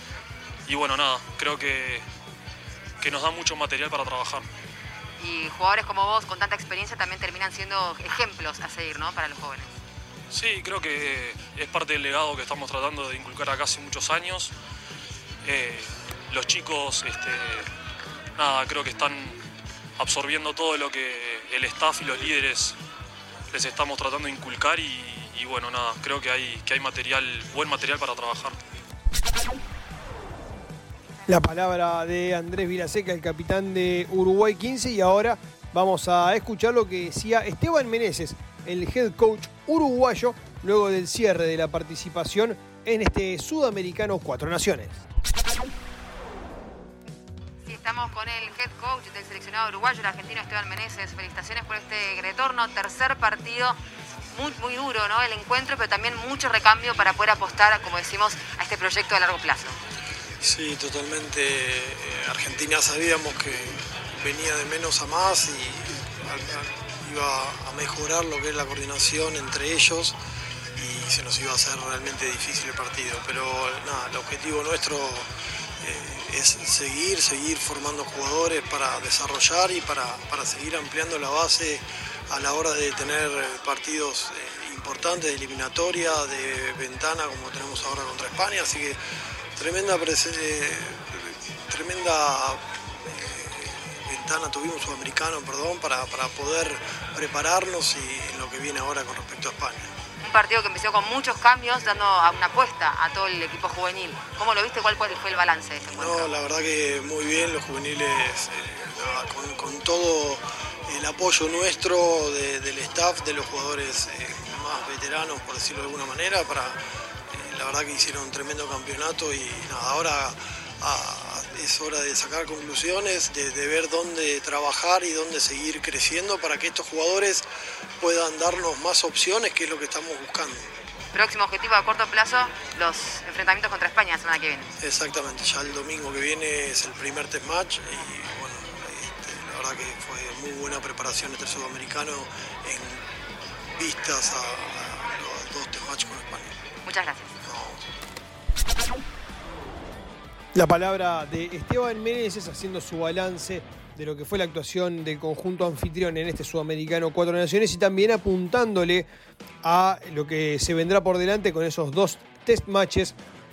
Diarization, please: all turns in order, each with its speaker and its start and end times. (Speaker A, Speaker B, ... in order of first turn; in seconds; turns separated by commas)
Speaker A: 0.7-2.0, Speaker A: 3.0-4.5, Speaker B: 5.2-9.7, Speaker A: 10.3-14.5, Speaker A: 15.4-17.7, Speaker A: 18.4-19.4, Speaker A: 20.0-22.8, Speaker A: 23.5-28.6, Speaker C: 31.3-45.0, Speaker B: 47.6-53.8, Speaker B: 54.3-59.8, Speaker D: 60.4-70.1, Speaker D: 70.8-75.2, Speaker D: 75.8-81.8, Speaker D: 82.3-88.9, Speaker D: 89.6-92.5, Speaker D: 93.1-99.8, Speaker B: 100.2-106.4, Speaker D: 106.0-110.4, Speaker D: 110.9-116.8, Speaker D: 117.3-127.4, Speaker D: 128.0-130.6, Speaker B: 131.1-134.7, Speaker D: 134.8-142.9, Speaker D: 143.8-146.5, Speaker B: 146.8-147.3, Speaker D: 147.5-147.8, Speaker C: 150.6-159.1, Speaker C: 159.6-163.2